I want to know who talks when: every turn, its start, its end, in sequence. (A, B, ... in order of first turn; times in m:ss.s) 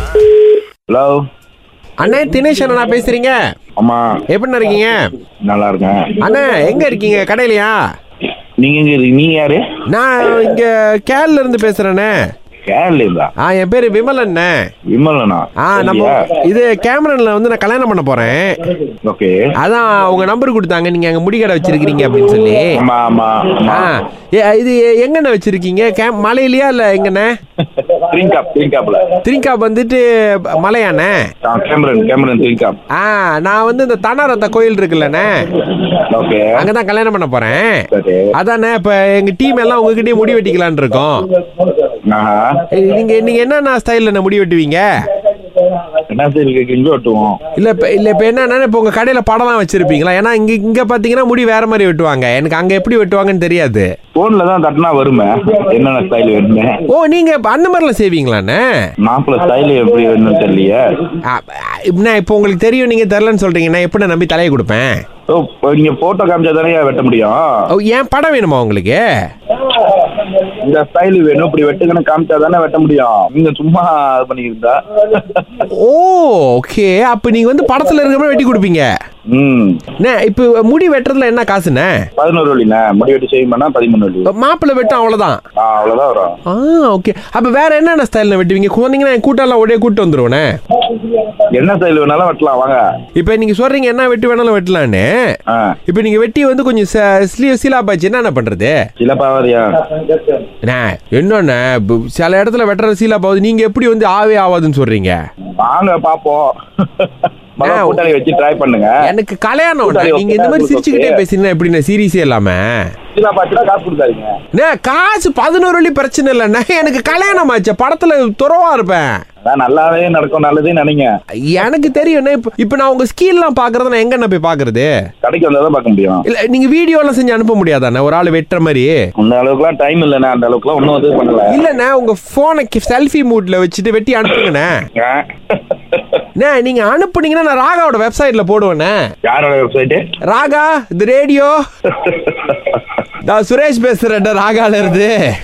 0:00.9-0:01.2 A
0:02.0-0:03.4 B
0:03.8-0:04.1 A
0:04.3-0:05.0 B
0:05.5-0:06.2 A
0:06.2-0:07.8 B
0:08.6-0:09.6 A
0:09.9-0:12.2 B
0:12.7-0:13.3 A
0:13.4-0:14.5 B
0:14.9-0:16.3 A
0:15.6-0:18.7 B
0:19.0-0:19.4 A
0:19.6-0:22.8 B
0:22.8-0:23.9 A
0:23.7-0:27.3 B
0:27.8-0:29.1 A
0:29.2-0:31.3 B
0:31.4-0:32.8 A
0:33.0-0:35.3 B
0:35.8-0:36.5 A
0:36.6-0:41.3 B
0:37.9-0:38.3 A
0:42.1-0:42.6 A
0:42.7-0:44.9 B
0:46.1-0:47.4 A
0:47.6-0:53.9 B
0:54.2-0:56.7 A
0:56.9-0:58.6 B
0:59.0-1:00.8 A
1:01.2-1:05.0 B
1:05.3-1:07.4 A
1:07.7-1:09.0 B
1:10.5-1:15.7 A
1:15.6-1:18.9 B
1:19.3-1:19.8 A
1:20.0-1:22.0 B
1:22.2-1:24.3 A
1:24.3-1:25.4 B
1:25.6-1:26.3 A
1:26.5-1:30.5 B
1:31.5-1:32.8 A
1:33.2-1:35.1 B
1:35.9-1:38.8 B
1:39.0-1:39.7 A
1:40.6-1:45.2 B
1:45.6-1:49.0 A
1:47.6-1:48.1 B
1:49.0-1:52.7 B
1:49.8-1:51.2 A
1:53.2-1:54.3 A
1:54.5-1:59.2 B
1:59.4-2:01.1 A
2:01.4-2:04.9 B
2:05.2-2:06.2 A
2:06.3-2:09.0 B
2:09.2-2:11.6 A
2:11.5-2:14.8 B
2:15.0-2:16.2 A
2:16.4-2:19.0 B
2:19.3-2:20.0 A
2:20.3-2:21.6 B
2:22.0-2:22.8 A
2:23.2-2:25.2 B